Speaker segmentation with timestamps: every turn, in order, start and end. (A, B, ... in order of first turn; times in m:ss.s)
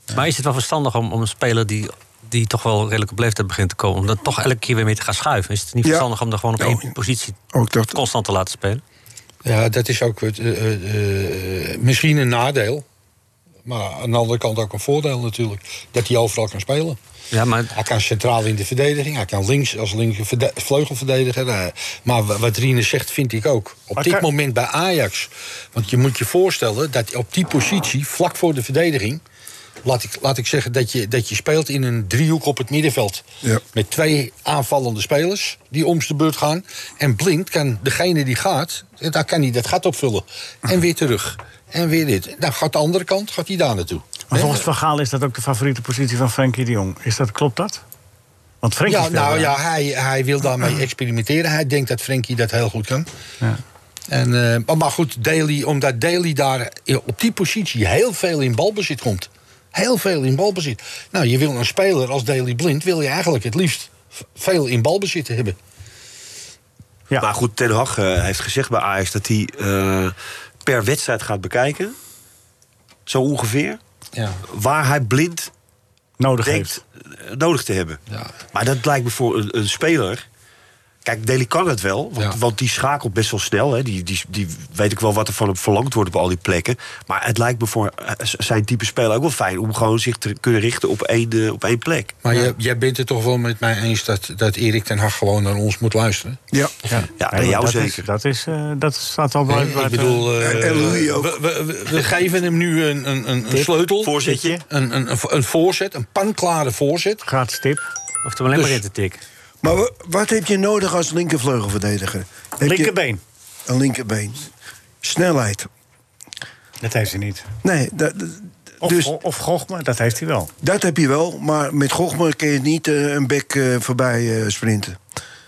0:00.1-0:07.4 A
0:06.6-0:06.8 B
0:07.5-0:08.0 B
0:07.9-0:08.8 A
0:09.4-0:12.8 C
0:13.6-0:17.0 C
0:17.3-0:17.7 A
0:17.7-0:29.2 C
0:24.0-0:24.2 D
0:29.8-0:44.6 C
0:44.3-0:47.8 D
0:48.6-0:49.5 D
0:48.8-0:53.1 C
0:54.1-1:05.6 C
1:07.2-1:12.0 E
1:13.0-1:13.8 E
1:14.2-1:14.4 C
1:14.4-1:15.5 E
1:16.2-1:16.8 D
1:16.4-1:18.0 E
1:18.5-1:20.2 E
1:21.0-1:32.2 E
1:32.2-1:36.4 C
1:36.9-1:40.3 D
1:37.2-1:38.0 E
1:39.5-1:47.2 C
1:40.4-1:41.4 B
1:43.5-1:44.6 D
1:44.0-1:44.6 E
1:47.2-1:47.8 D
1:48.2-1:49.2 A
1:48.5-1:48.8 C
1:49.6-1:52.9 B
1:52.6-1:53.2 D
1:53.7-1:54.5 B
1:55.0-1:55.7 B
1:56.8-1:57.5 D
1:57.6-1:59.1 B
1:58.8-2:00.5 D
2:00.6-2:05.0 B